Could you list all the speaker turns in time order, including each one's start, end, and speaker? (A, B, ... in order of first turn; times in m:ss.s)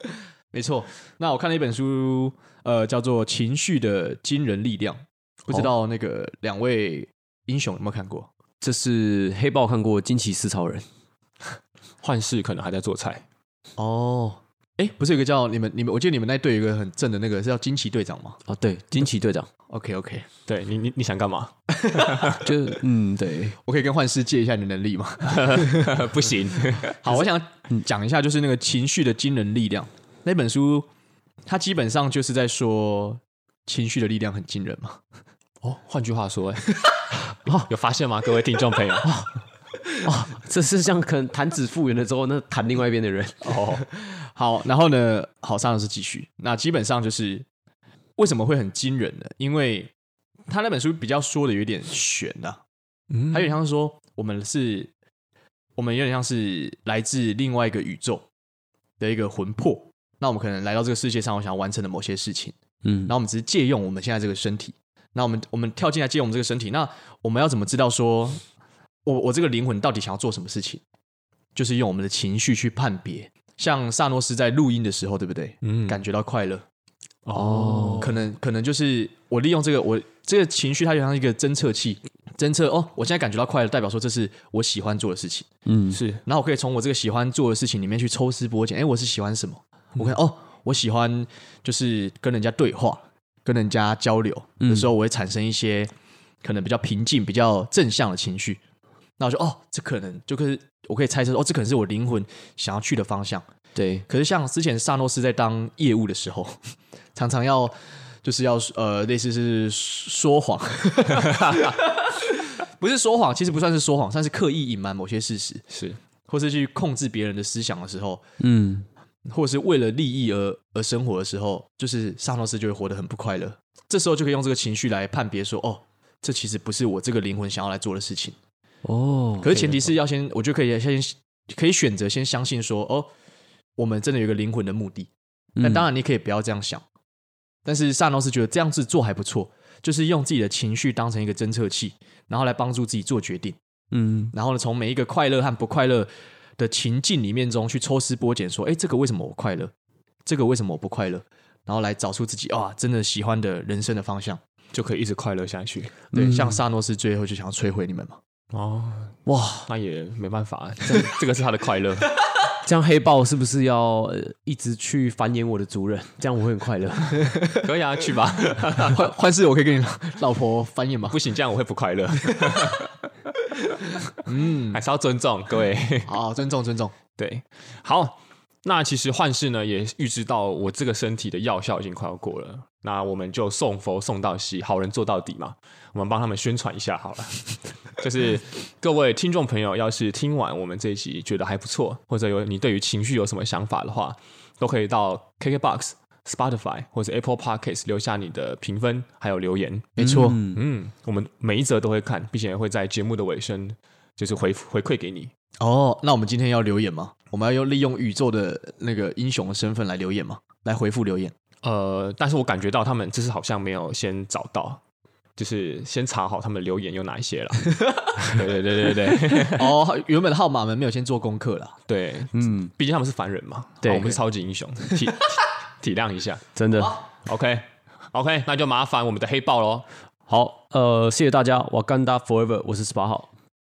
0:00.5-0:08.3 A
0:08.6-0:10.9 B
0:12.0-0:13.2 C
0:13.8-0:18.4 A
0:18.5-0:19.5 B
0:19.7-0:20.3 A
0:20.5-0:22.5 C
0:21.7-0:22.4 A
0:22.4-0:23.6 B
0:23.7-0:26.0 A
0:25.2-0:27.2 C
0:26.8-0:30.9 A
0:31.5-0:35.0 A
0:35.6-0:36.8 C
0:37.6-0:39.2 C
0:39.0-0:39.3 B
0:40.0-0:43.7 B
0:43.4-0:43.8 C
0:44.0-0:47.4 A
0:48.2-0:49.9 A
0:50.5-0:52.6 A
0:53.1-0:53.5 C
0:53.3-0:54.9 A
0:55.8-0:58.3 A
0:59.0-1:02.6 A
1:02.8-1:03.1 B
1:03.1-1:08.4 A
1:09.0-1:10.8 A
1:11.6-1:16.6 A
1:15.6-1:16.0 C
1:17.2-1:18.2 C
1:17.4-1:18.1 B
1:18.0-1:25.5 A
1:25.7-1:26.0 B
1:25.9-1:26.2 C
1:26.3-1:35.9 A
1:34.6-1:34.9 B
1:36.4-1:38.6 A
1:39.2-1:43.4 A
1:43.8-1:44.1 B
1:44.1-1:46.6 A
1:47.2-1:55.6 A
1:51.1-1:51.8 C
1:55.7-1:56.0 C
1:56.3-1:58.2 A
1:58.4-1:58.9 B
1:59.3-2:08.4 A
2:08.8-2:09.8 B
2:09.4-2:13.1 A
2:13.8-2:15.1 A
2:15.6-2:15.9 B
2:15.6-2:16.8 A
2:17.6-2:23.6 A
2:23.9-2:24.3 B
2:24.3-2:29.7 A
2:30.3-2:34.4 A
2:34.7-2:36.0 C
2:36.1-2:36.6 B
2:36.1-2:38.2 A
2:38.5-2:42.1 C
2:39.3-2:39.7 B
2:42.6-2:47.3 B
2:47.6-2:49.0 C
2:48.8-2:51.2 A
2:51.1-2:53.0 C
2:54.2-2:54.8 A
2:54.7-2:56.1 C
2:56.1-2:57.0 A
2:57.2-3:25.3 C
3:20.0-3:20.4 A
3:20.0-3:20.6 B
3:25.6-3:31.3 A
3:31.6-3:34.8 C
3:35.4-3:39.7 C
3:39.3-3:41.8 A
3:41.9-3:46.5 C
3:42.3-3:42.7 B
3:43.8-3:44.2 B
3:46.6-3:47.0 B
3:46.8-3:47.0 A
3:47.2-3:49.9 C
3:50.3-3:53.3 B